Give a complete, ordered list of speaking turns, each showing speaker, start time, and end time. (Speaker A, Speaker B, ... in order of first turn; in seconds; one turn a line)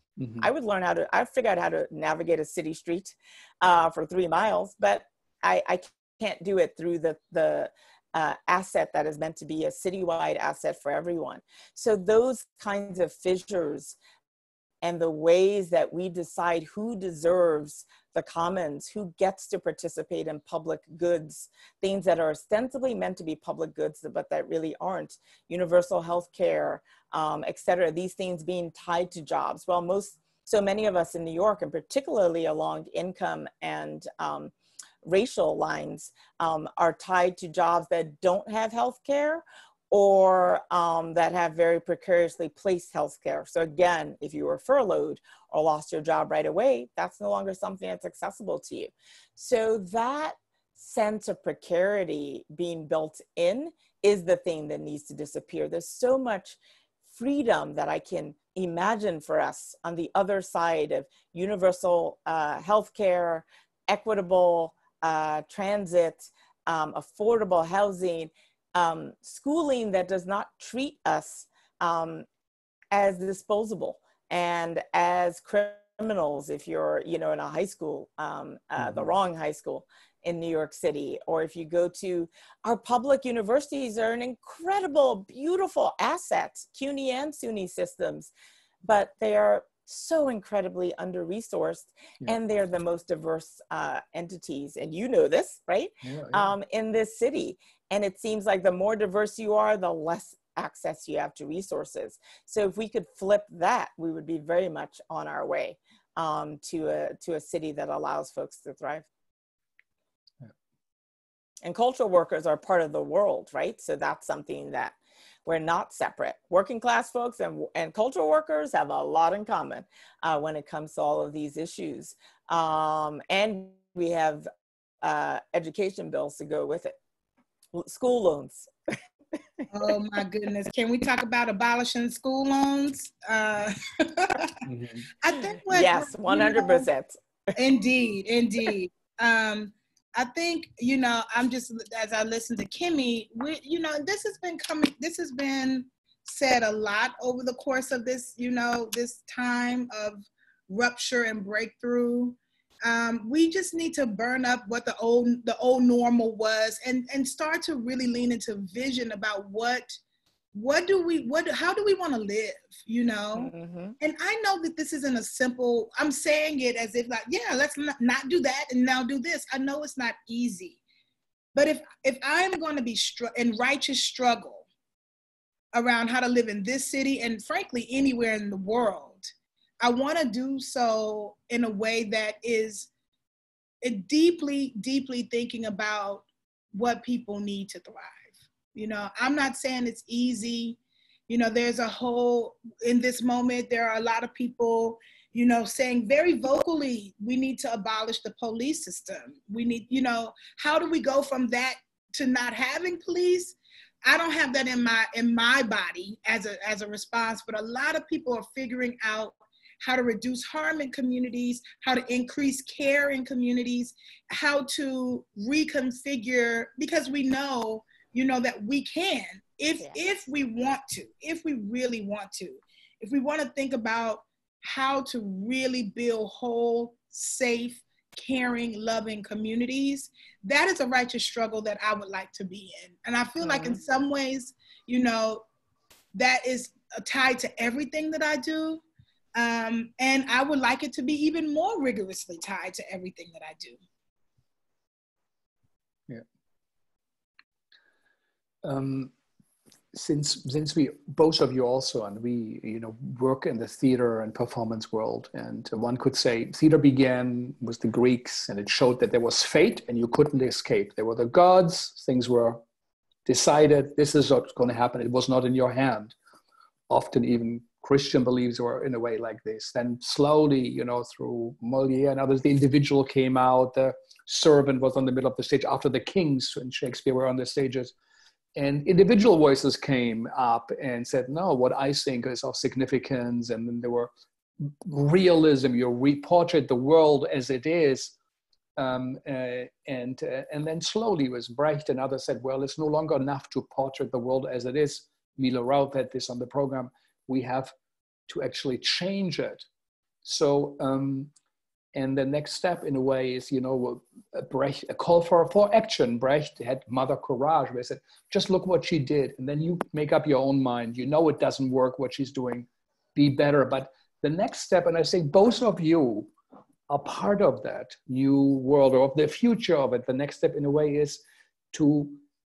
Speaker A: 0.2-0.5
Speaker B: 0.4-14.0
Speaker B: 14.8-34.5
Speaker B: 35.0-72.3
Speaker B: 72.9-88.3
Speaker A: 78.8-79.1
Speaker B: 88.8-109.1
Speaker A: 96.0-96.5
Speaker B: 111.6-124.5
Speaker B: 125.0-127.0
Speaker B: 127.7-128.9
Speaker C: 129.7-134.6
Speaker A: 134.7-135.1
Speaker C: 135.2-136.9
Speaker B: 135.7-137.2
Speaker C: 137.6-160.0
Speaker C: 160.5-170.8
Speaker B: 163.4-164.0
Speaker C: 171.6-174.7
Speaker C: 175.7-179.3
Speaker C: 179.8-182.9
Speaker C: 183.8-190.8
Speaker C: 191.3-235.4
Speaker B: 233.4-233.8
Speaker C: 236.1-238.8
Speaker C: 239.3-243.8
Speaker A: 248.6-249.1
Speaker A: 249.9-262.6
Speaker A: 263.3-266.2
Speaker A: 266.9-277.9
Speaker A: 278.6-288.1
Speaker A: 288.8-297.7
Speaker A: 298.3-299.7
Speaker A: 300.2-301.3
Speaker A: 301.9-316.3
Speaker A: 316.9-321.2
Speaker A: 321.7-322.2